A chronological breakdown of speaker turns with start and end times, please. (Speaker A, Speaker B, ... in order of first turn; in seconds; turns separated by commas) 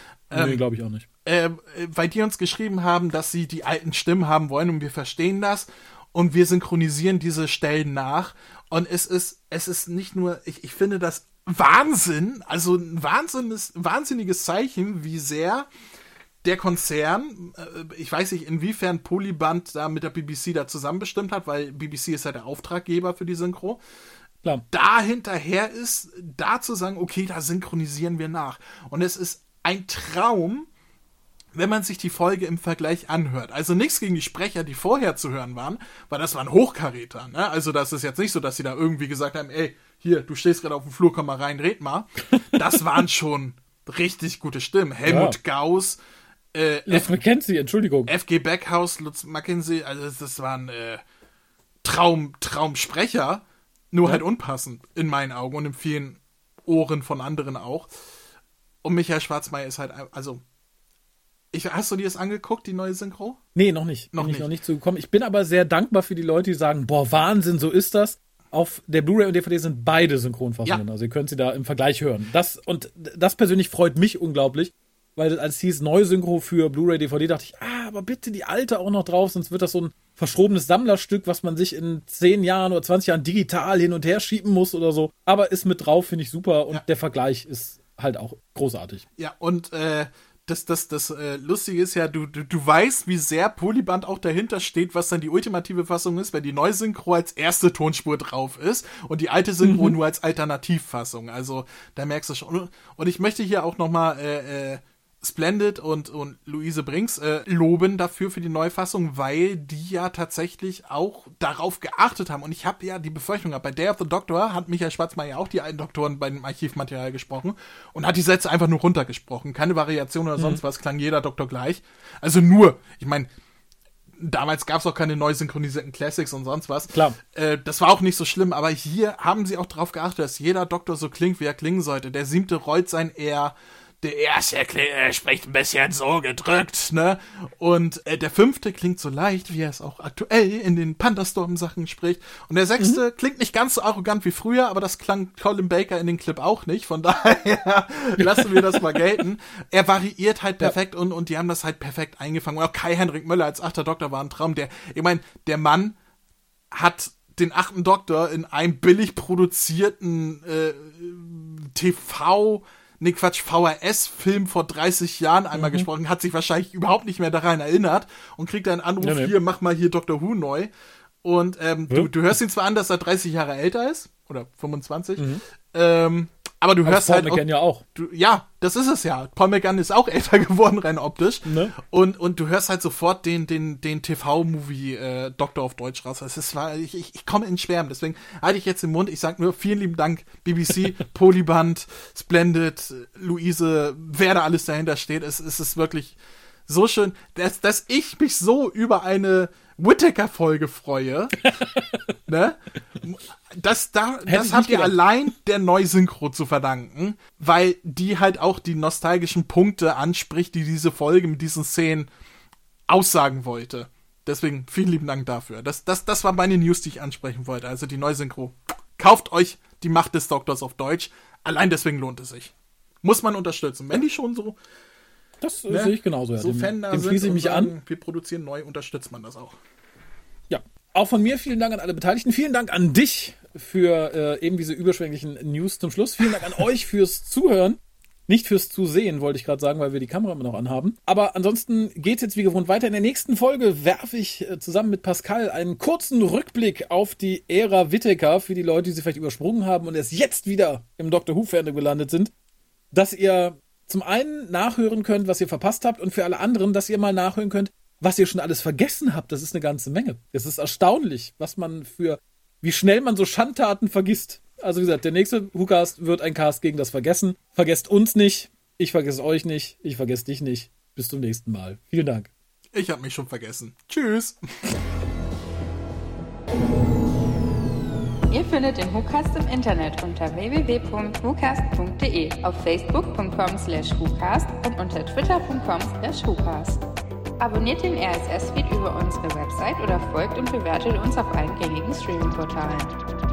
Speaker A: 0.3-0.6, Speaker B: 0.3-1.0, Speaker A: 1.2-15.7, Speaker A: 16.4-23.8, Speaker A: 24.7-30.7, Speaker A: 31.5-46.0, Speaker B: 45.0-45.4, Speaker A: 46.5-47.1, Speaker B: 46.9-48.1, Speaker A: 48.1-51.0, Speaker A: 51.8-57.9, Speaker A: 58.8-60.4, Speaker A: 61.5-63.4, Speaker B: 63.5-89.0, Speaker A: 64.1-64.5, Speaker A: 89.2-123.3, Speaker B: 99.6-100.0, Speaker B: 120.3-120.6, Speaker A: 124.2-156.0, Speaker B: 126.9-127.2, Speaker B: 148.2-149.0, Speaker A: 156.7-170.7, Speaker B: 165.5-165.9, Speaker B: 169.0-169.3, Speaker A: 171.2-201.5, Speaker B: 175.2-175.4, Speaker B: 176.8-177.8, Speaker B: 181.4-181.7, Speaker B: 201.5-202.0, Speaker A: 202.3-212.1, Speaker B: 204.3-204.9, Speaker A: 212.9-224.6, Speaker B: 225.4-227.7, Speaker A: 225.7-229.6, Speaker B: 230.5-252.3, Speaker B: 252.9-272.3, Speaker A: 272.7-274.4, Speaker C: 278.3-286.8, Speaker C: 287.4-292.9